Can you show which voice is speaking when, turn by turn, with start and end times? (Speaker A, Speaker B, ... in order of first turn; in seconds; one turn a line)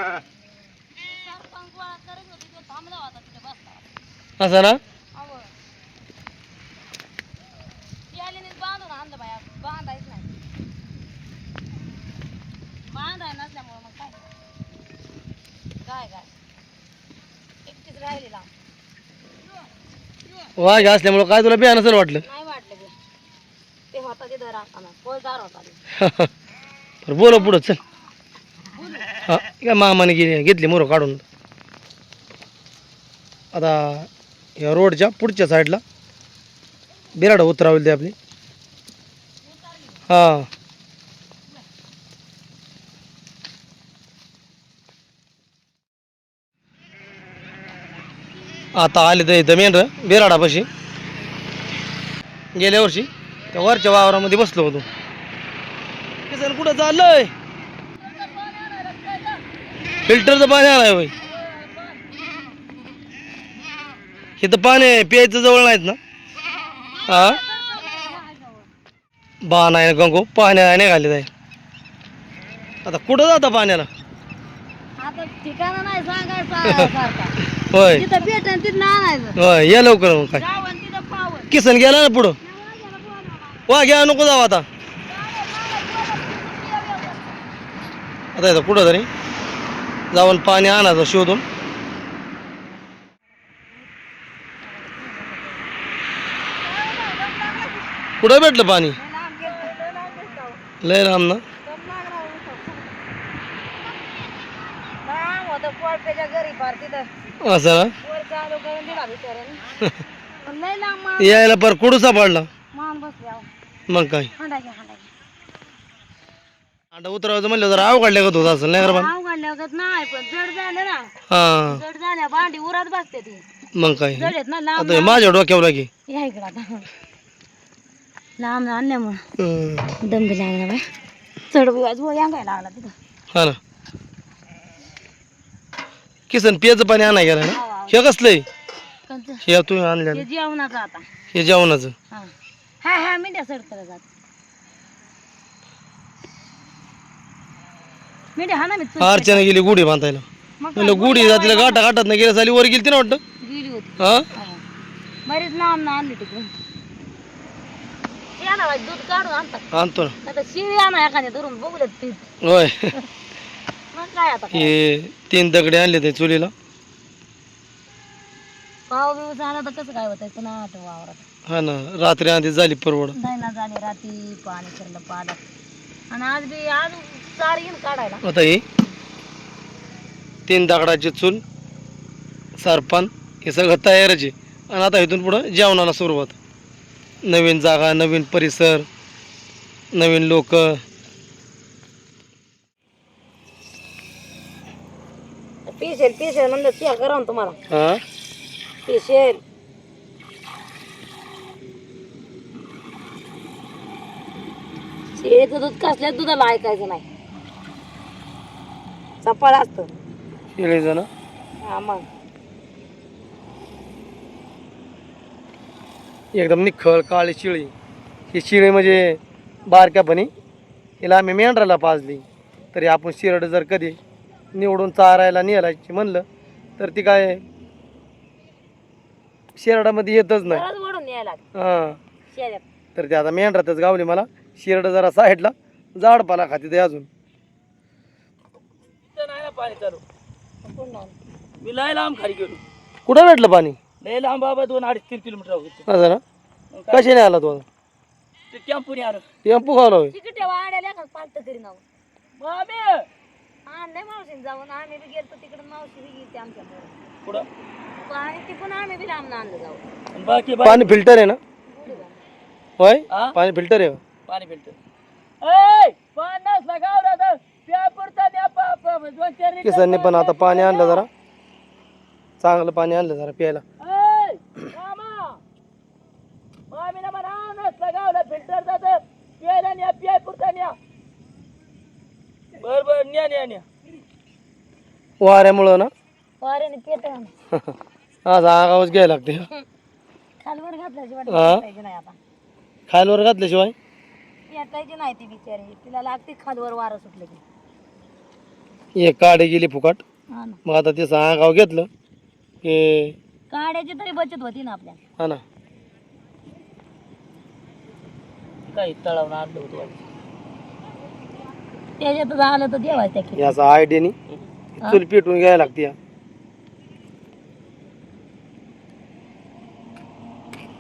Speaker A: 1.0-3.8
Speaker B: 4.4-4.8
Speaker A: 5.1-5.5
Speaker A: 8.1-10.3
Speaker A: 12.9-14.3
Speaker A: 15.8-16.3
Speaker A: 17.6-18.5
Speaker B: 20.6-22.2
Speaker A: 22.2-22.9
Speaker A: 23.9-25.8
Speaker B: 26.0-26.3
Speaker B: 27.1-27.8
Speaker A: 28.8-29.2
Speaker B: 29.2-31.2
Speaker B: 33.5-35.8
Speaker B: 37.1-38.1
Speaker A: 39.5-40.0
Speaker B: 40.1-40.5
Speaker B: 48.7-50.7
Speaker B: 52.5-54.9
Speaker B: 56.3-57.3
Speaker A: 58.0-59.4
Speaker B: 60.0-61.1
Speaker A: 61.2-62.0
Speaker B: 64.4-66.0
Speaker A: 66.8-68.7
Speaker B: 67.1-67.4
Speaker B: 69.4-71.3
Speaker B: 72.8-73.9
Speaker A: 75.0-77.3
Speaker B: 77.7-78.0
Speaker A: 77.9-79.4
Speaker B: 79.3-80.4
Speaker A: 80.3-81.5
Speaker B: 81.5-82.4
Speaker A: 82.4-83.7
Speaker B: 83.7-84.6
Speaker A: 85.1-87.4
Speaker B: 88.3-89.1
Speaker B: 90.1-91.4
Speaker A: 94.6-95.6
Speaker A: 96.6-97.8
Speaker B: 98.2-99.0
Speaker A: 98.9-100.6
Speaker B: 100.8-101.4
Speaker A: 101.6-102.8
Speaker A: 105.0-107.1
Speaker B: 107.4-107.9
Speaker A: 108.0-109.6
Speaker A: 110.4-111.4
Speaker B: 111.2-112.5
Speaker A: 112.7-113.5
Speaker B: 113.9-114.3
Speaker A: 114.3-115.1
Speaker B: 116.9-119.1
Speaker A: 118.8-121.1
Speaker B: 121.3-121.8
Speaker A: 121.7-123.4
Speaker B: 123.7-125.9
Speaker A: 124.2-125.2
Speaker A: 126.1-126.8
Speaker A: 128.4-129.2
Speaker B: 129.4-129.9
Speaker A: 130.0-130.8
Speaker A: 131.5-132.9
Speaker B: 133.3-133.6
Speaker B: 136.3-138.4
Speaker A: 137.4-137.9
Speaker A: 139.1-139.4
Speaker B: 139.4-140.2
Speaker A: 140.1-141.1
Speaker B: 141.3-141.9
Speaker A: 142.1-144.0
Speaker A: 148.3-149.4
Speaker B: 149.0-153.2
Speaker A: 150.6-151.8
Speaker A: 153.4-154.6
Speaker B: 154.0-154.3
Speaker A: 155.2-156.5
Speaker A: 158.4-159.6
Speaker B: 159.7-160.2
Speaker A: 160.2-162.3
Speaker B: 162.4-162.9
Speaker A: 163.9-164.7
Speaker B: 164.5-166.5
Speaker A: 168.9-171.2
Speaker B: 171.5-173.2
Speaker A: 173.2-175.4
Speaker A: 176.1-178.2
Speaker B: 178.2-178.6
Speaker B: 180.5-181.4
Speaker B: 182.6-186.3
Speaker B: 187.2-188.9
Speaker B: 189.9-190.8
Speaker A: 195.7-197.6
Speaker B: 197.7-198.0
Speaker A: 198.8-199.4
Speaker A: 205.2-207.0
Speaker A: 209.2-209.9
Speaker B: 210.6-211.1
Speaker A: 211.6-212.0
Speaker B: 216.3-217.7
Speaker B: 218.3-220.3
Speaker B: 221.0-224.0
Speaker B: 224.5-226.2
Speaker B: 226.8-227.4
Speaker B: 229.6-230.6
Speaker A: 230.5-231.4
Speaker B: 231.5-232.0
Speaker A: 232.3-232.6
Speaker B: 232.9-237.1
Speaker C: 239.1-240.0
Speaker A: 240.6-241.2
Speaker C: 241.6-242.6
Speaker B: 243.1-243.8
Speaker C: 244.0-245.8
Speaker B: 245.9-246.2
Speaker C: 246.7-247.1
Speaker B: 246.9-247.6
Speaker C: 248.5-249.3
Speaker B: 249.4-250.1
Speaker A: 250.1-251.8
Speaker C: 252.4-253.1
Speaker A: 253.7-257.0
Speaker A: 258.0-259.8
Speaker C: 260.1-261.0
Speaker B: 260.6-261.4
Speaker A: 261.7-262.2
Speaker B: 262.8-264.0
Speaker C: 263.1-263.4
Speaker C: 264.3-264.8
Speaker C: 265.4-270.9
Speaker B: 269.6-271.1
Speaker B: 272.4-273.6
Speaker C: 273.8-275.4
Speaker C: 276.7-280.8
Speaker C: 282.6-283.6
Speaker B: 285.2-285.9
Speaker A: 286.4-287.3
Speaker B: 288.2-289.5
Speaker A: 290.4-292.2
Speaker B: 291.3-291.6
Speaker B: 292.9-293.7
Speaker A: 294.5-297.4
Speaker B: 299.0-300.0
Speaker A: 300.3-300.6
Speaker B: 300.6-301.9
Speaker B: 302.6-303.1
Speaker A: 303.5-305.0
Speaker C: 308.7-310.0
Speaker A: 312.0-313.5
Speaker B: 313.4-314.1
Speaker B: 314.8-315.9